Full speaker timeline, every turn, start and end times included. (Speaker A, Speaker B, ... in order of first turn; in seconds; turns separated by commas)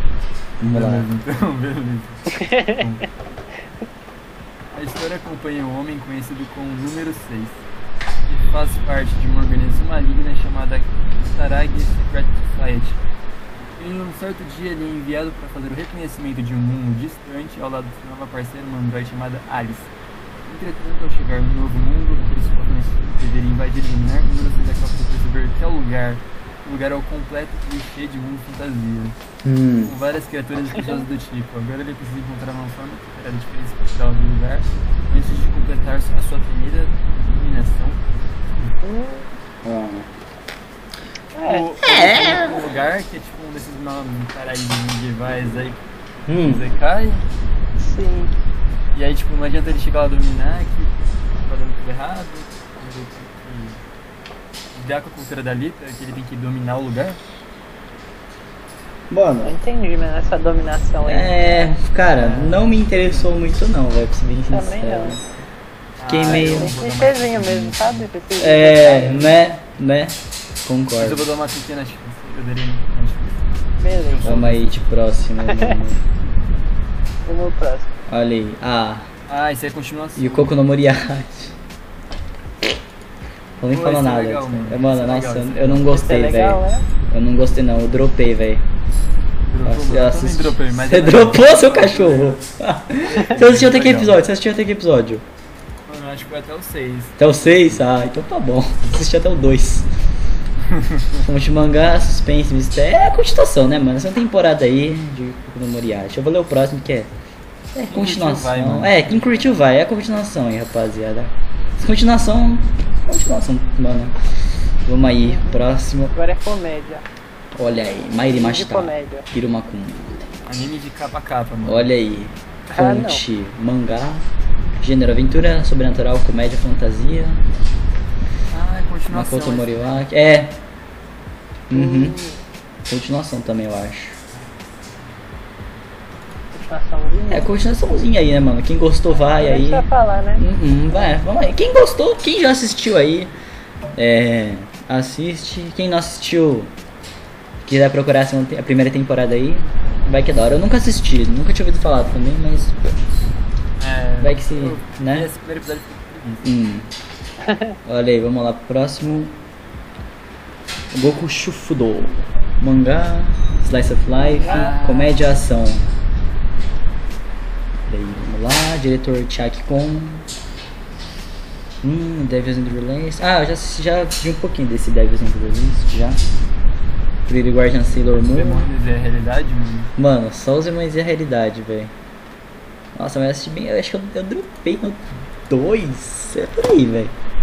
Speaker A: 0.6-1.1, Speaker B: 0.7-3.0, Speaker C: 2.3-3.0, Speaker B: 4.7-7.6, Speaker B: 8.3-13.0, Speaker B: 13.8-19.9, Speaker B: 20.4-29.1, Speaker A: 29.4-29.9, Speaker B: 29.8-38.0, Speaker C: 30.7-31.0, Speaker C: 38.8-39.3, Speaker A: 39.6-40.1, Speaker C: 41.3-41.7, Speaker B: 41.5-45.8, Speaker A: 41.8-42.6, Speaker A: 46.3-46.6, Speaker B: 46.4-47.2, Speaker C: 47.8-48.3, Speaker B: 48.9-53.8, Speaker B: 54.7-57.2, Speaker A: 59.1-59.5, Speaker C: 59.4-61.8, Speaker A: 61.0-65.2, Speaker B: 62.1-63.3, Speaker C: 64.5-65.2, Speaker B: 66.0-68.0, Speaker A: 66.1-66.7, Speaker C: 66.2-69.3, Speaker A: 68.4-71.2, Speaker B: 71.0-74.7, Speaker C: 73.8-74.3, Speaker A: 74.2-76.0, Speaker C: 75.4-75.8, Speaker C: 77.2-77.9, Speaker A: 78.1-79.1, Speaker B: 79.3-80.5, Speaker A: 80.2-81.5, Speaker A: 83.6-88.6, Speaker B: 83.7-86.0, Speaker C: 85.9-86.8, Speaker B: 89.5-92.5, Speaker A: 89.6-95.2, Speaker B: 93.1-94.2, Speaker B: 95.9-97.8, Speaker A: 97.2-99.9, Speaker B: 100.7-101.2, Speaker A: 101.2-107.1, Speaker A: 107.7-114.1, Speaker B: 107.8-109.6, Speaker A: 114.8-116.1, Speaker C: 115.2-117.0, Speaker A: 117.5-120.2, Speaker C: 118.2-119.2, Speaker B: 120.4-121.9, Speaker A: 121.7-124.2, Speaker C: 122.7-123.2, Speaker A: 124.8-127.4, Speaker B: 128.5-130.0, Speaker A: 129.1-130.6, Speaker A: 131.7-132.2, Speaker C: 131.7-132.4, Speaker A: 132.9-134.2, Speaker C: 136.5-137.5, Speaker A: 137.3-143.3, Speaker C: 139.1-140.4, Speaker A: 143.9-146.7, Speaker A: 147.6-152.8, Speaker B: 153.8-156.4, Speaker A: 154.2-155.3, Speaker A: 156.4-156.9, Speaker C: 157.4-157.8, Speaker A: 157.8-159.3, Speaker A: 160.9-165.8, Speaker C: 164.1-164.7, Speaker B: 164.4-165.3, Speaker A: 167.9-170.2, Speaker A: 171.8-176.2, Speaker A: 177.3-178.7, Speaker B: 178.3-179.9, Speaker A: 179.9-181.9, Speaker A: 182.9-187.1